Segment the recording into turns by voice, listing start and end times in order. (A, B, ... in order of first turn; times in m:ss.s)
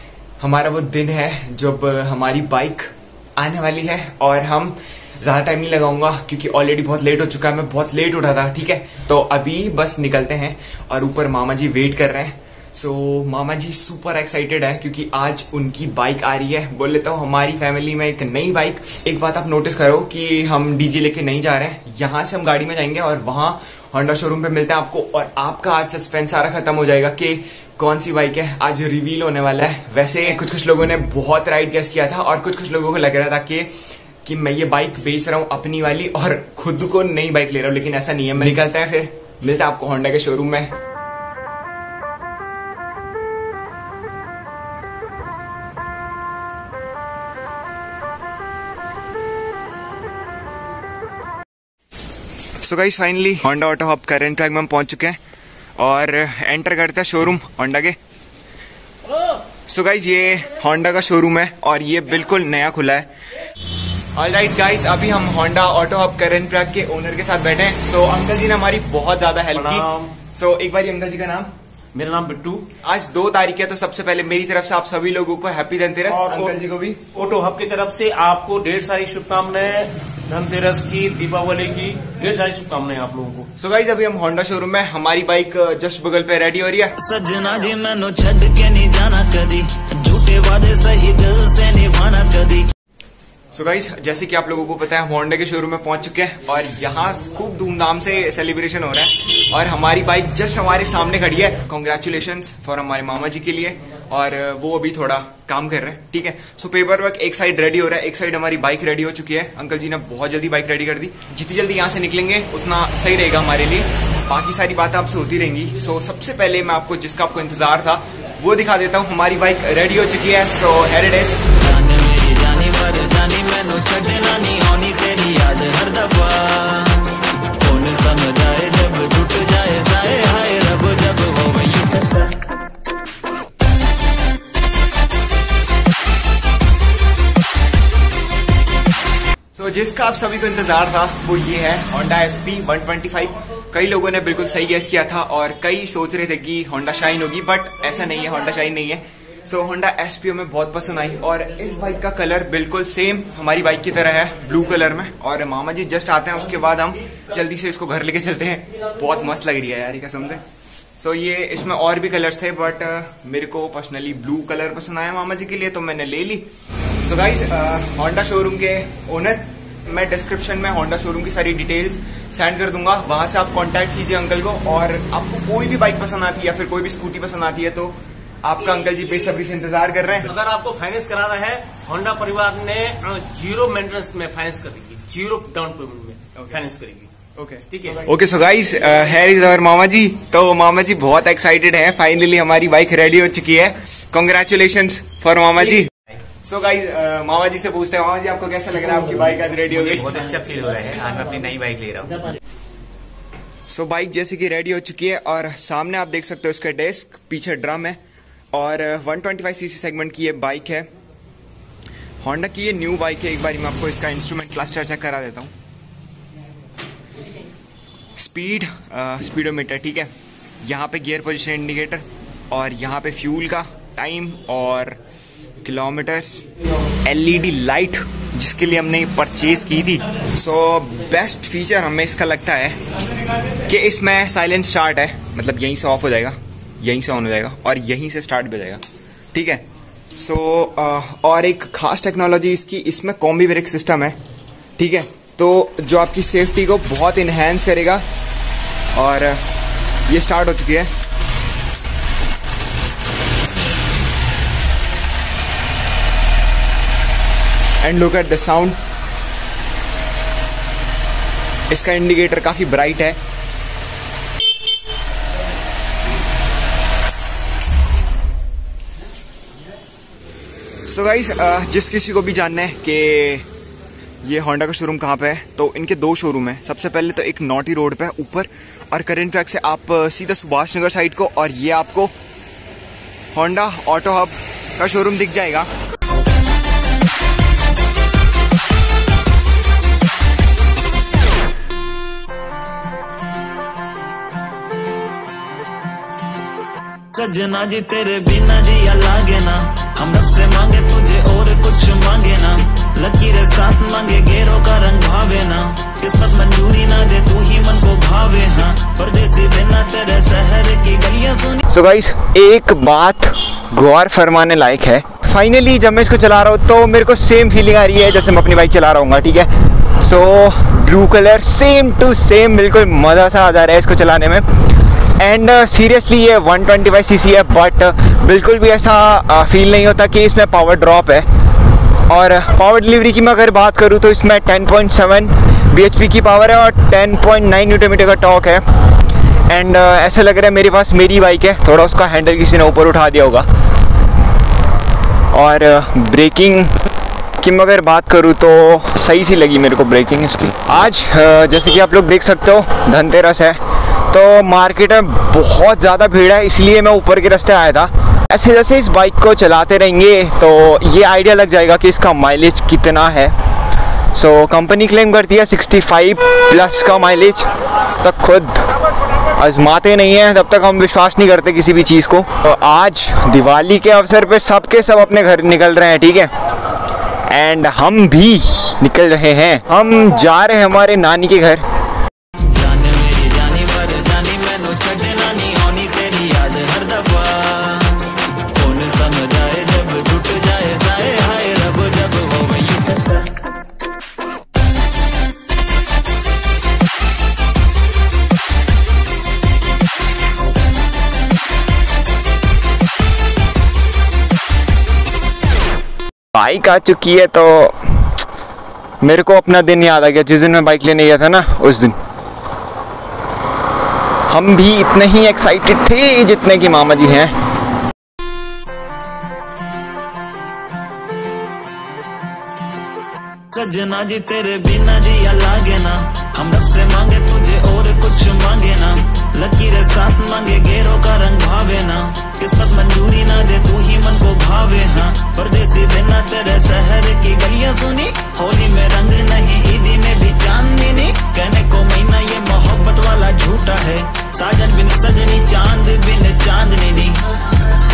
0:00.4-0:33.7 A
0:34.2-0:40.7 A
0:52.6-0:55.2 A
0:55.8-0:58.0 A
0:59.7-1:03.1 A
1:04.2-1:11.5 A
1:09.5-1:10.1 B
1:12.0-1:12.7 B
1:12.8-1:17.0 A
1:16.1-1:16.6 B
1:17.1-1:23.5 B
1:23.6-1:27.0 A
1:27.0-1:32.7 C
1:33.5-2:01.4 A
2:01.6-2:12.4 C
2:19.6-2:40.4 A
2:41.0-2:46.5 A
2:47.0-3:00.3 A
3:00.3-3:07.1 B
3:07.4-3:15.9 A
3:07.7-3:08.1 B
3:16.4-3:20.2 A
3:19.9-3:20.9 B
3:20.0-3:22.2 D
3:23.7-3:28.0 A
3:28.5-3:30.9 A
3:32.2-3:35.5 A
3:38.2-3:40.1 A
3:40.6-3:45.0 A
3:45.6-3:46.5 A
3:47.0-3:52.8 A
3:53.7-3:58.8 A
3:59.3-3:59.6 A
4:00.2-4:04.2 A
4:04.8-4:08.0 A
4:08.9-4:09.4 A
4:10.1-4:10.9 A
4:17.8-4:18.8 A
4:21.7-4:23.2 A
4:30.9-4:33.5 A
4:34.2-4:42.1 A
4:43.3-4:45.7 A
4:57.1-5:11.6 C
5:11.7-5:31.3 A
5:32.1-5:38.6 A
5:39.5-5:43.5 A
5:45.3-5:46.7 A
5:47.4-5:53.6 A
5:54.1-6:03.3 A
6:04.1-6:07.5 A
6:08.0-6:08.7 A
6:09.4-6:16.3 A
6:17.3-6:21.6 A
6:22.4-6:33.3 C
6:46.3-6:48.1 A
6:49.0-6:52.0 A
6:54.3-6:57.3 A
7:03.5-7:27.5 C